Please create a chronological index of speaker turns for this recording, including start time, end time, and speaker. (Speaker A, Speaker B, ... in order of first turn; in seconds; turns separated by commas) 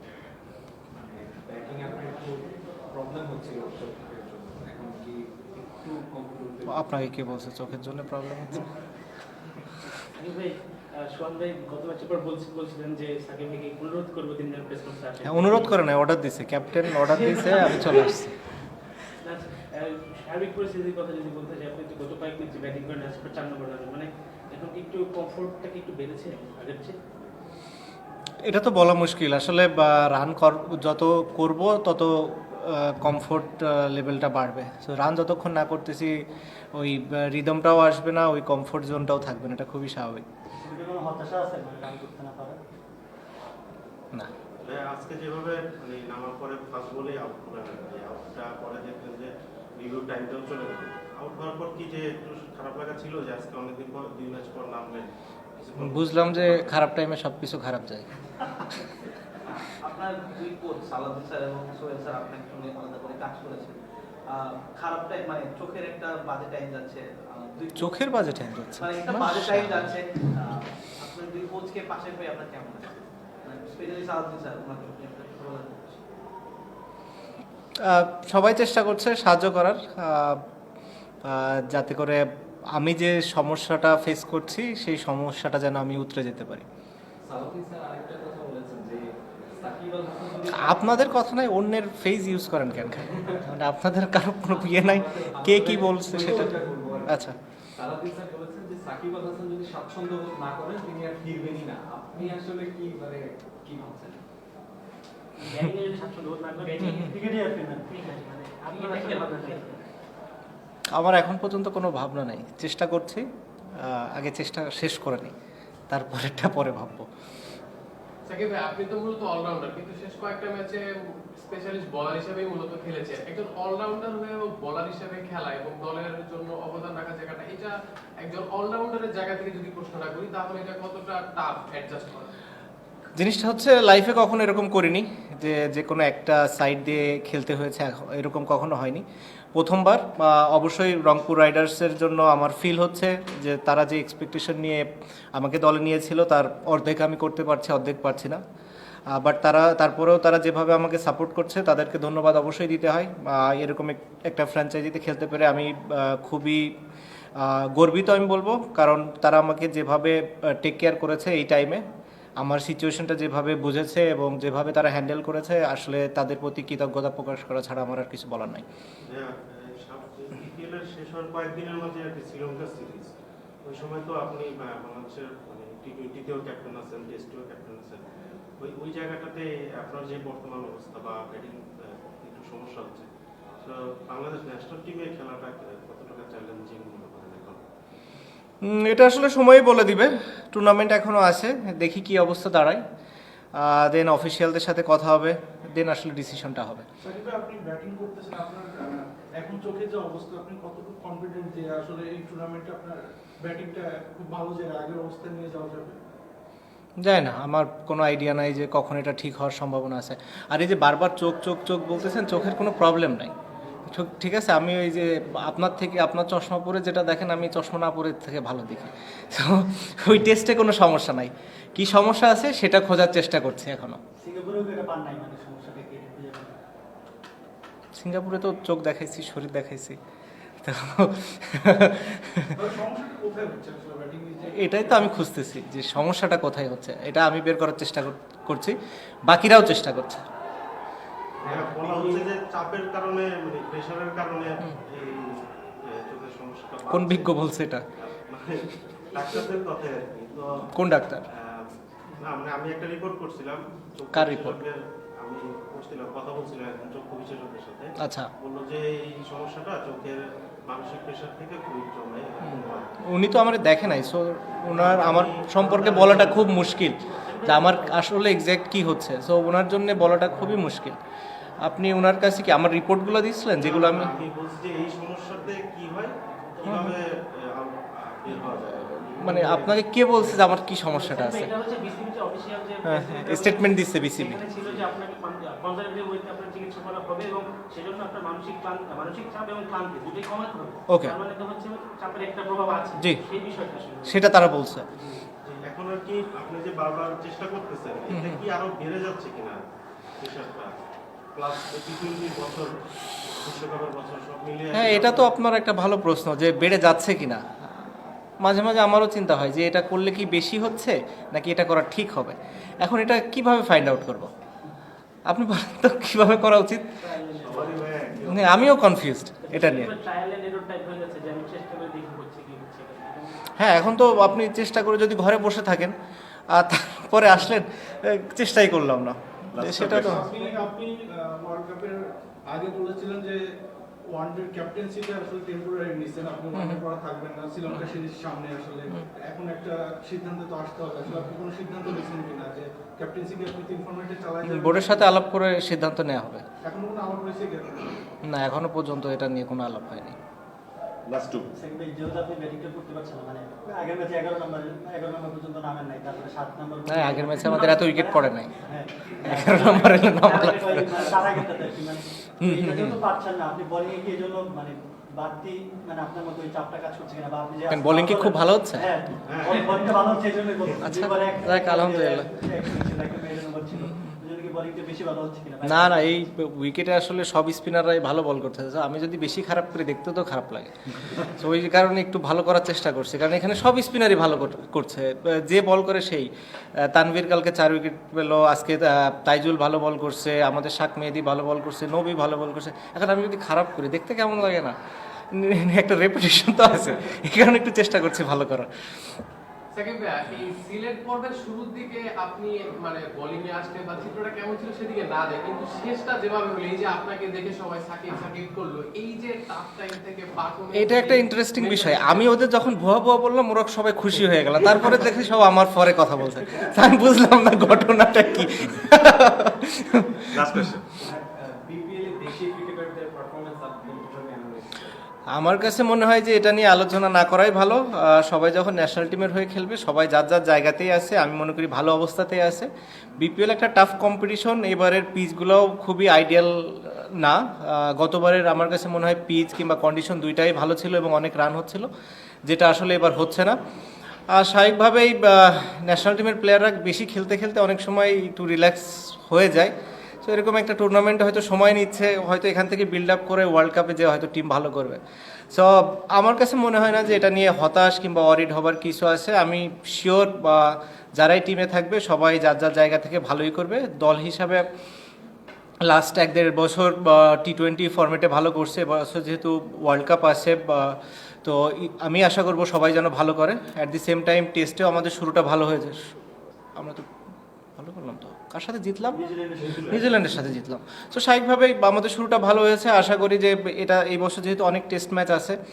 Speaker A: 0.9-6.8, Speaker B: 6.7-8.7, Speaker C: 10.2-15.8, Speaker B: 15.2-18.4, Speaker C: 17.2-18.1, Speaker C: 19.2-27.0, Speaker B: 28.4-36.2, Speaker B: 36.7-40.2, Speaker D: 40.6-42.6, Speaker E: 44.6-56.8, Speaker B: 55.8-58.1, Speaker F: 59.5-68.0, Speaker B: 67.8-69.9, Speaker F: 68.7-76.1, Speaker B: 77.9-80.4, Speaker B: 81.2-82.2, Speaker B: 82.7-86.7, Speaker A: 87.2-90.9, Speaker B: 90.6-96.5, Speaker A: 94.5-97.2, Speaker B: 97.1-97.3, Speaker A: 97.8-104.2, Speaker C: 105.4-107.1, Speaker D: 106.8-108.0, Speaker B: 106.8-107.1, Speaker C: 107.9-109.8, Speaker B: 111.0-113.2, Speaker B: 113.8-115.3, Speaker B: 115.9-117.1, Speaker G: 118.3-132.3, Speaker B: 133.2-148.4, Speaker B: 149.1-156.8, Speaker B: 157.4-161.8, Speaker B: 162.4-168.7, Speaker E: 169.0-173.1, Speaker E: 173.6-178.1, Speaker E: 178.6-183.1, Speaker E: 183.6-187.6, Speaker B: 188.6-192.8, Speaker B: 193.6-196.9, Speaker H: 197.0-206.0, Speaker B: 207.0-213.3, Speaker B: 213.9-224.0, Speaker D: 224.2-226.5, Speaker B: 227.9-230.0, Speaker B: 230.6-232.5, Speaker H: 232.6-235.1, Speaker B: 234.5-240.2, Speaker E: 241.4-247.3, Speaker H: 241.4-242.2, Speaker B: 246.9-247.8, Speaker E: 248.0-250.5, Speaker B: 250.7-251.2, Speaker E: 251.3-262.9, Speaker B: 254.1-254.6, Speaker B: 258.0-258.3, Speaker B: 262.4-271.0, Speaker E: 264.7-266.7, Speaker C: 267.1-268.0, Speaker B: 271.6-274.1, Speaker E: 273.6-280.5, Speaker B: 276.6-276.9, Speaker B: 279.2-281.5, Speaker C: 280.9-294.4, Speaker B: 282.8-284.4, Speaker B: 290.9-291.1, Speaker B: 294.0-294.9, Speaker C: 294.9-295.2, Speaker E: 295.4-299.6, Speaker B: 298.1-298.4, Speaker E: 300.2-300.8, Speaker E: 301.3-302.8, Speaker E: 303.4-305.3, Speaker B: 304.7-314.3, Speaker B: 315.3-316.9, Speaker C: 317.0-318.0, Speaker E: 317.3-318.8, Speaker B: 318.2-319.9, Speaker C: 319.4-323.4, Speaker B: 323.6-325.9, Speaker B: 326.5-330.3, Speaker A: 329.6-330.1, Speaker H: 330.0-333.4, Speaker H: 334.1-345.1, Speaker B: 336.5-336.8, Speaker B: 344.4-346.4, Speaker H: 346.6-348.0, Speaker B: 348.2-350.1, Speaker D: 351.5-376.1, Speaker B: 356.9-358.5, Speaker B: 359.2-361.1, Speaker B: 362.4-363.0, Speaker B: 367.7-368.9, Speaker E: 369.3-370.2, Speaker B: 370.8-372.3, Speaker B: 373.8-374.1, Speaker B: 375.6-394.8, Speaker B: 395.3-399.1, Speaker G: 399.7-412.4, Speaker B: 410.7-420.8, Speaker E: 420.4-420.8, Speaker A: 421.0-425.0, Speaker B: 425.3-441.9, Speaker B: 442.4-443.6, Speaker B: 444.3-464.6, Speaker B: 465.9-476.0, Speaker B: 476.8-477.0, Speaker B: 477.8-479.2, Speaker D: 479.1-480.4, Speaker B: 479.8-485.6